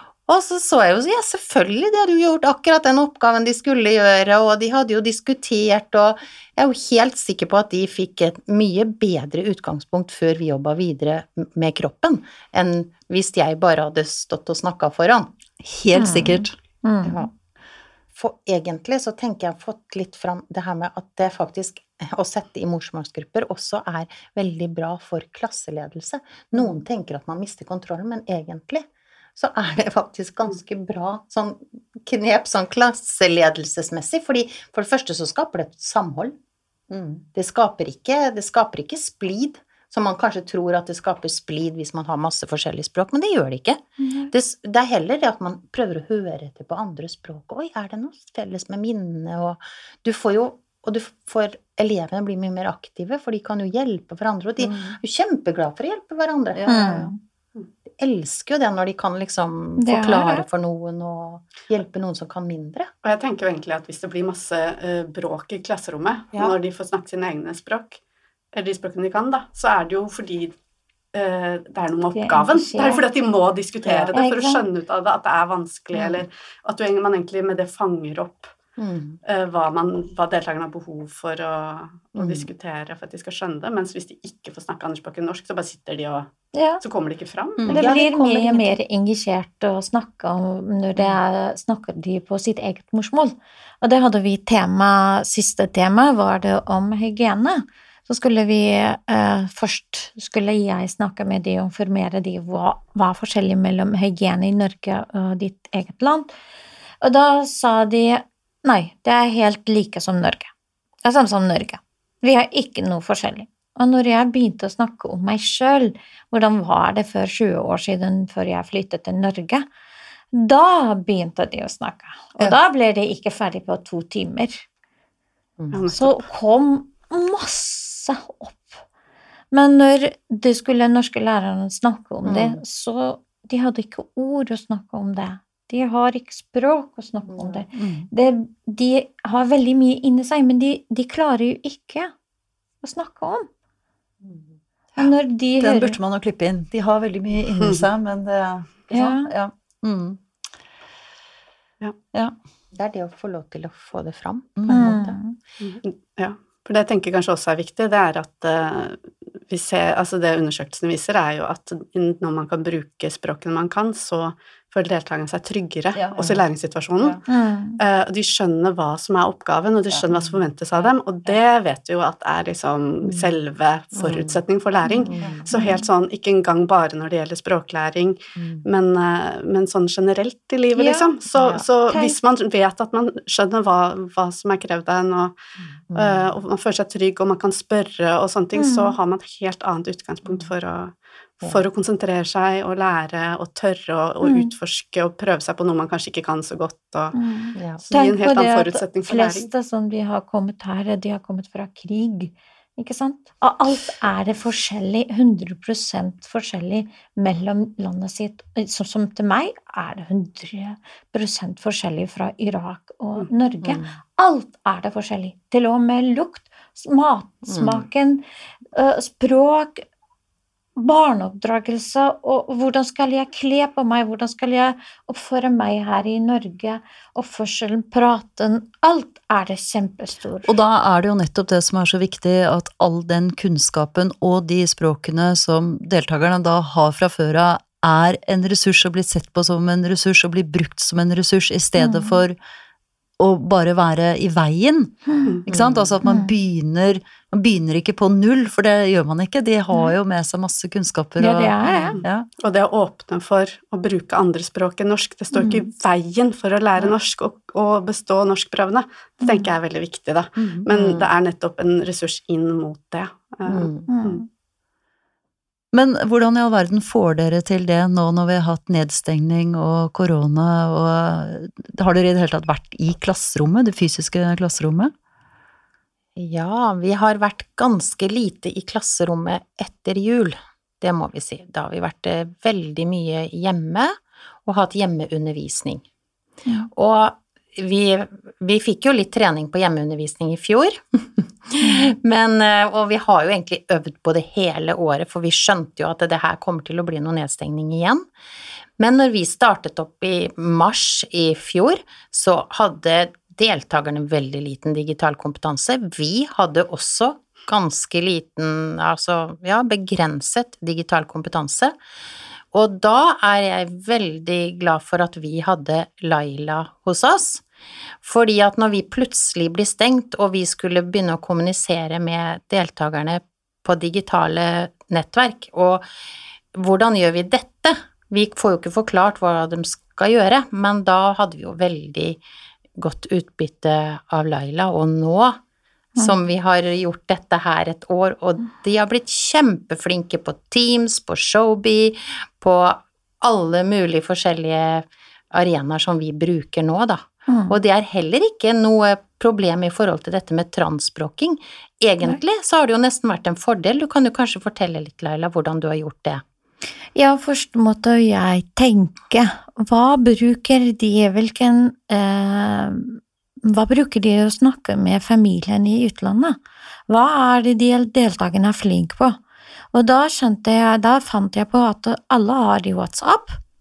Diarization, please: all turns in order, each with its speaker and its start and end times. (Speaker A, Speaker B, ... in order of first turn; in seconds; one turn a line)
Speaker A: 0.3-15.3
Speaker B: 15.6-16.6
Speaker C: 15.9-17.3
Speaker A: 17.0-17.3
Speaker A: 18.1-36.3
Speaker A: 36.9-57.1
Speaker C: 44.0-44.3
Speaker B: 54.6-55.0
Speaker B: 56.5-57.0
Speaker C: 56.7-57.1
Speaker A: 58.0-62.9
Speaker C: 59.8-60.5
Speaker D: 63.0-68.0
Speaker D: 68.5-70.5
Speaker D: 71.1-78.5
Speaker C: 72.1-73.0
Speaker A: 73.8-74.1
Speaker C: 74.1-74.6
Speaker A: 78.8-79.2
Speaker D: 79.2-87.8
Speaker A: 82.2-82.5
Speaker C: 86.5-86.8
Speaker B: 87.6-87.9
Speaker C: 87.7-106.3
Speaker A: 87.7-88.8
Speaker C: 107.0-110.5
Speaker C: 111.0-119.7
Speaker C: 120.3-124.6
Speaker D: 125.7-126.2
Speaker C: 125.9-128.8
Speaker C: 129.5-142.1
Speaker A: 132.2-132.6
Speaker A: 137.3-137.6
Speaker B: 137.7-138.1
Speaker C: 142.8-143.5
Speaker A: 144.2-144.5
Speaker C: 145.0-146.0
Speaker B: 145.0-150.2
Speaker D: 147.6-147.8
Speaker C: 148.9-149.3
Speaker A: 152.7-155.2
Speaker B: 154.6-154.9
Speaker C: 154.7-155.4
Speaker D: 155.6-167.2
Speaker B: 165.9-166.4
Speaker C: 167.3-167.8
Speaker D: 167.8-185.4
Speaker A: 173.0-173.3
Speaker A: 174.0-174.4
Speaker C: 174.9-175.8
Speaker A: 175.0-175.5
Speaker A: 178.4-178.6
Speaker C: 180.8-182.1
Speaker A: 181.3-181.6
Speaker A: 185.9-186.3
Speaker D: 185.9-197.2
Speaker C: 188.6-188.9
Speaker C: 194.2-194.5
Speaker C: 197.1-218.2
Speaker D: 197.8-199.5
Speaker A: 213.6-214.0
Speaker A: 217.5-217.9
Speaker C: 218.8-219.9
Speaker C: 220.8-230.5
Speaker B: 230.5-242.4
Speaker C: 241.8-242.2
Speaker B: 243.2-252.3
Speaker C: 245.1-245.4
Speaker A: 245.5-246.0
Speaker C: 246.0-246.3
Speaker C: 251.2-252.0
Speaker D: 251.9-264.2
Speaker C: 259.2-259.5
Speaker A: 260.6-261.1
Speaker A: 263.5-263.9
Speaker C: 263.9-264.3
Speaker B: 265.7-274.9
Speaker A: 276.1-283.9
Speaker A: 284.4-285.9
Speaker A: 286.7-298.1
Speaker C: 291.6-291.9
Speaker A: 298.8-311.8
Speaker A: 312.5-317.4
Speaker A: 318.0-325.8
Speaker A: 326.5-332.2
Speaker A: 332.8-335.4
Speaker A: 336.0-356.2
Speaker C: 347.3-347.6
Speaker C: 356.9-369.2
Speaker C: 369.7-373.4